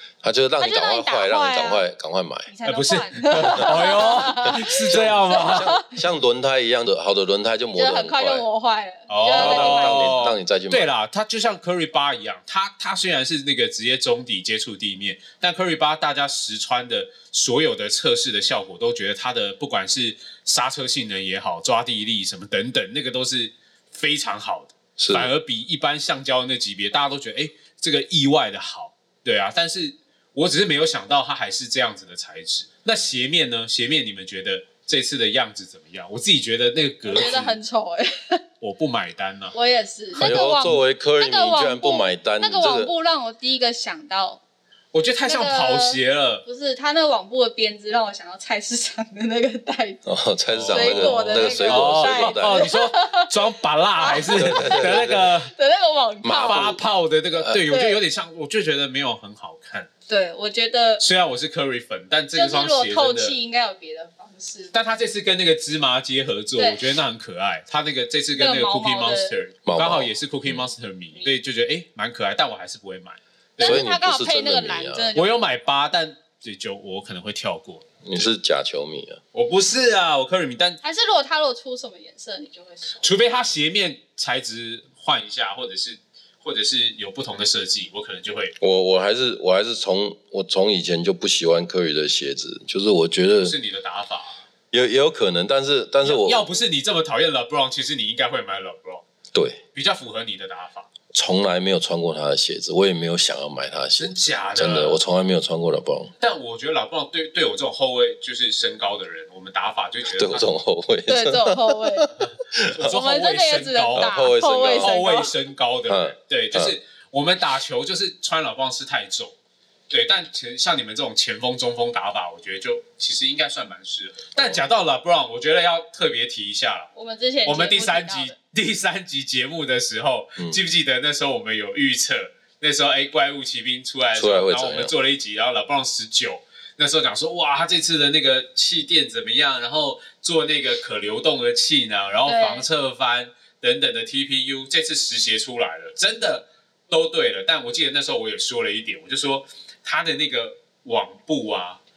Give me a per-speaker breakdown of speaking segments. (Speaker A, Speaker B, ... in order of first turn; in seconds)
Speaker A: 0.2-2.5, 4.5-8.4, 9.3-10.9, 25.0-25.3, 40.2-42.9, 50.1-52.7, 54.4-55.3, 56.2-56.8, 69.7-70.7, 73.6-75.1, 78.0-79.2, 88.6-93.5, 94.7-96.5, 99.3-99.6, 101.1-106.1, 110.2-112.9, 114.0-115.0, 115.9-116.8, 124.4-124.6, 134.2-134.9
Speaker B: 0.6-1.8, 2.5-6.0, 7.8-10.2, 37.1-38.4, 39.5-44.4, 45.3-50.0, 50.7-56.7, 57.7-58.0, 60.1-61.0, 62.3-64.7, 66.6-66.9, 68.3-69.4, 73.6-75.5, 80.8-83.1, 111.1-112.1, 112.8-115.3, 126.9-128.3, 142.3-142.7
Speaker C: 2.7-5.8, 9.1-37.6, 38.6-39.5, 40.2-40.5, 44.9-46.4, 50.5-55.5, 56.4-59.9, 61.0-63.3, 64.7-73.9, 75.2-78.3, 79.3-80.8, 83.0-88.5, 93.4-94.4, 96.0-99.0, 99.7-100.9, 104.0-105.0, 106.2-110.5, 112.2-114.2, 114.8-119.3, 119.9-126.9, 127.5-151.8